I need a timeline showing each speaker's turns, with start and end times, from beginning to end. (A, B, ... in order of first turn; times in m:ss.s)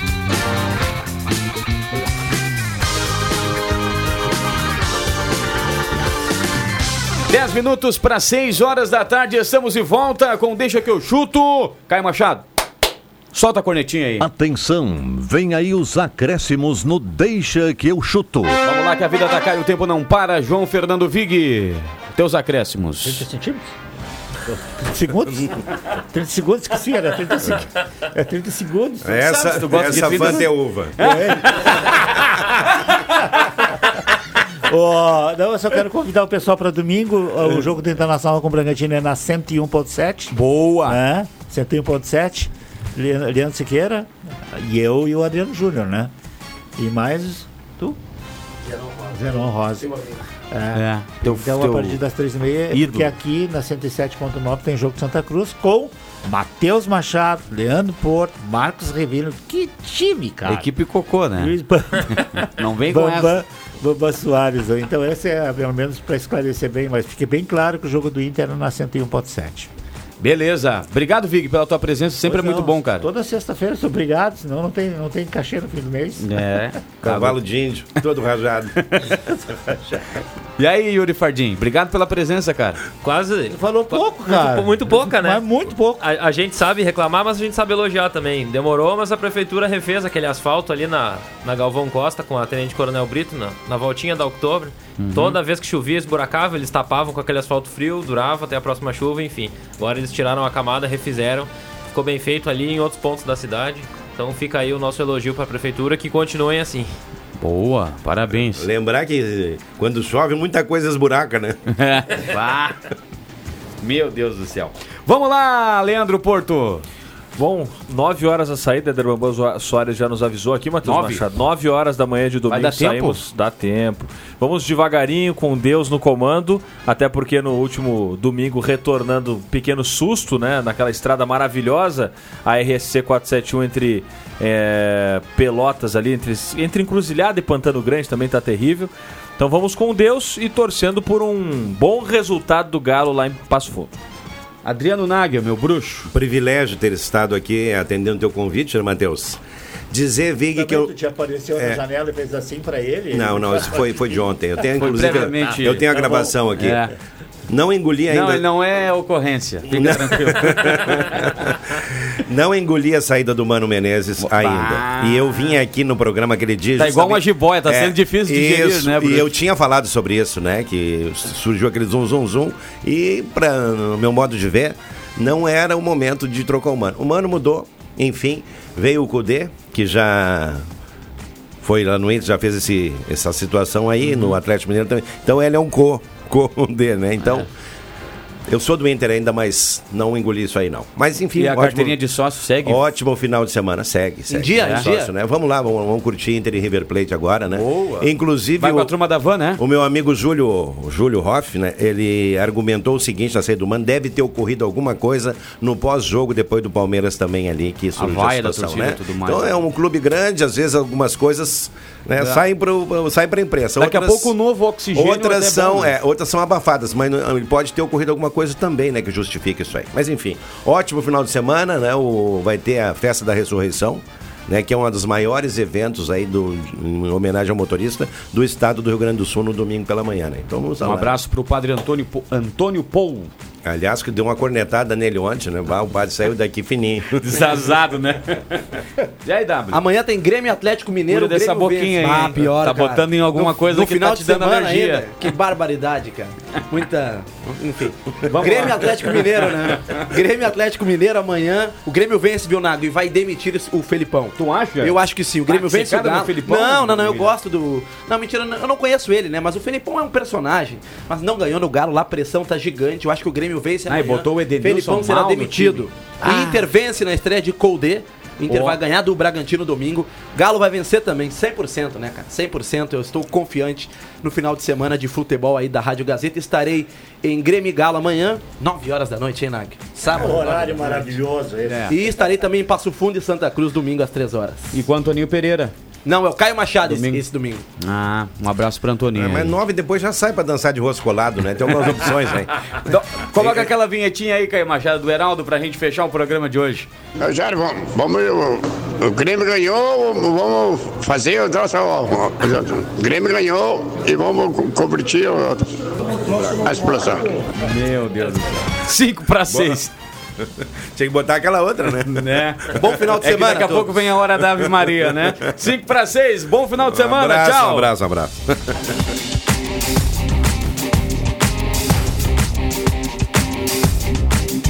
0:07.3-0:12.4 A
0:13.3-0:14.3 A
0:14.2-0:18.6 B
0:18.6-0:23.2 A
0:23.0-0:23.7 C
0:24.5-0:32.2 C
0:29.0-0:31.0 D
0:29.2-0:31.9 A
0:33.2-0:34.0 C
0:34.7-0:46.1 C
0:40.3-0:41.0 A
0:46.8-0:48.0 C
0:49.1-1:00.7 C
0:50.7-0:52.0 A
0:52.7-0:53.1 A
1:00.5-1:01.6 A
1:01.4-1:09.7 C
1:02.4-1:03.3 A
1:10.2-1:13.1 A
1:12.3-1:16.8 C
1:16.2-1:17.4 A
1:17.0-1:18.8 D
1:18.8-1:19.2 A
1:19.5-1:19.8 C
1:20.6-1:22.8 A
1:23.0-1:25.4 E
1:23.5-1:26.0 C
1:26.0-1:46.9 E
1:35.0-1:35.4 A
1:47.4-1:48.7 A
1:48.5-1:51.6 D
1:51.7-1:52.8 A
1:53.8-1:56.8 A
1:57.4-2:24.0 F
2:00.8-2:01.2 A
2:02.5-2:03.2 A
2:24.6-2:26.1 A
2:26.1-2:29.4 D
2:29.9-2:30.9 D
2:30.6-2:34.1 C
2:33.1-2:36.8 D
2:34.8-2:36.9 A
2:35.1-2:35.5 C
2:37.5-2:38.4 D
2:38.1-2:41.2 A
2:39.7-3:00.6 D
2:44.2-2:45.6 A
2:46.8-2:49.3 A
3:01.6-3:07.5 D
3:08.5-3:12.0 D
3:11.4-3:12.8 A
3:12.6-3:18.9 D
3:14.3-3:15.1 G
3:14.6-3:14.9 A
3:17.5-3:19.6 A
3:19.6-3:34.4 D
3:28.0-3:29.6 A
3:33.8-3:35.9 A
3:34.9-3:51.2 D
3:50.8-3:53.3 A
3:53.6-3:57.5 D
3:57.2-3:58.7 A
3:59.2-3:59.8 A
3:59.7-4:41.1 G
4:01.1-4:05.1 A
4:08.2-4:09.2 A
4:14.4-4:17.3 A
4:23.9-4:26.5 A
4:28.5-4:28.8 A
4:40.0-4:42.0 C
4:41.6-4:41.9 A
4:41.9-4:44.8 G
4:44.7-4:45.7 A
4:46.0-4:47.6 G
4:46.9-4:47.2 A
4:47.8-4:49.6 A
4:49.2-4:52.5 D
4:52.8-4:56.9 A
4:53.4-4:53.7 D
4:57.2-5:05.7 H
5:06.3-5:07.4 H
5:07.6-5:09.9 A
5:09.5-5:09.8 D
5:10.6-5:15.0 D
5:12.1-5:17.9 A
5:12.8-5:13.8 G
5:16.8-5:18.9 D